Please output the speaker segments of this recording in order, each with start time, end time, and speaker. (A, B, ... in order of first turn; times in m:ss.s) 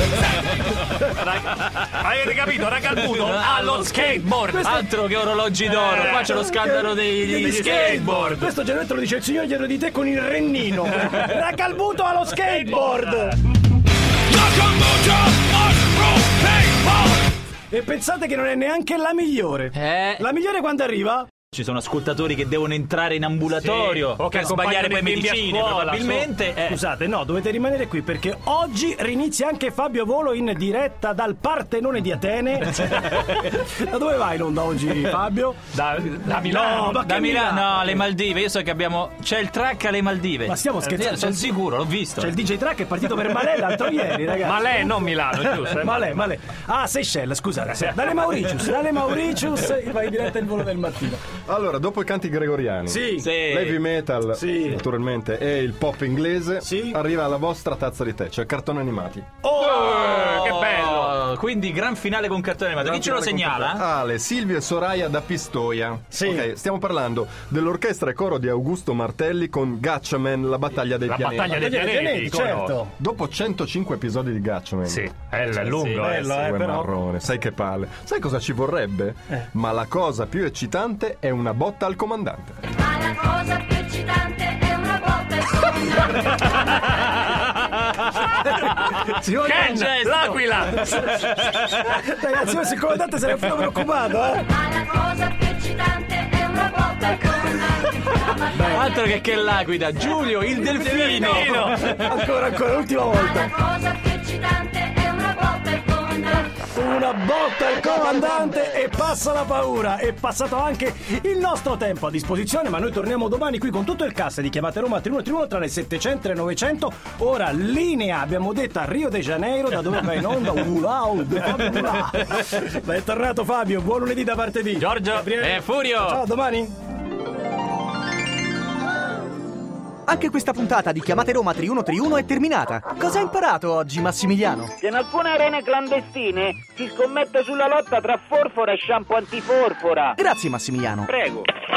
0:00.4-0:01.0 A
0:01.2-0:04.6 B
0:03.0-0:08.5 C
0:04.3-0:04.9 A
0:05.7-0:13.4 A
0:14.3-0:21.3 A
0:19.8-0:20.2 C
0:21.5-0:26.8 C
0:23.6-0:26.3 B
0:26.7-0:38.0 A
0:35.8-0:36.9 B
0:36.8-0:42.3 C
0:40.5-0:41.6 A
0:42.2-0:51.2 A
0:44.4-0:46.1 B
0:51.5-0:59.3 D
0:52.9-0:53.3 A
0:53.2-0:53.8 C
0:54.4-0:54.8 A
0:56.6-0:57.0 A
0:59.4-1:00.2 A
0:59.6-1:01.2 B
0:59.7-1:03.8 C
1:02.8-1:03.5 A
1:03.6-1:11.8 D
1:06.1-1:06.5 A
1:11.1-1:12.8 B
1:11.5-1:12.9 A
1:13.0-1:15.1 D
1:14.9-1:16.2 B
1:15.6-1:16.0 C
1:16.0-1:16.9 A
1:16.0-1:22.6 D
1:22.9-1:25.9 E
1:27.3-1:28.0 C
1:28.2-1:34.8 A
1:29.0-1:31.9 C
1:34.8-1:37.6 E
1:38.3-1:42.2 C
1:38.4-1:38.8 A
1:40.6-1:43.7 A
1:43.7-1:46.5 E
1:46.5-2:06.7 A
2:04.8-2:06.2 C
2:10.1-2:14.7 F
2:14.8-2:20.2 G
2:20.2-2:21.1 F
2:21.1-2:21.5 G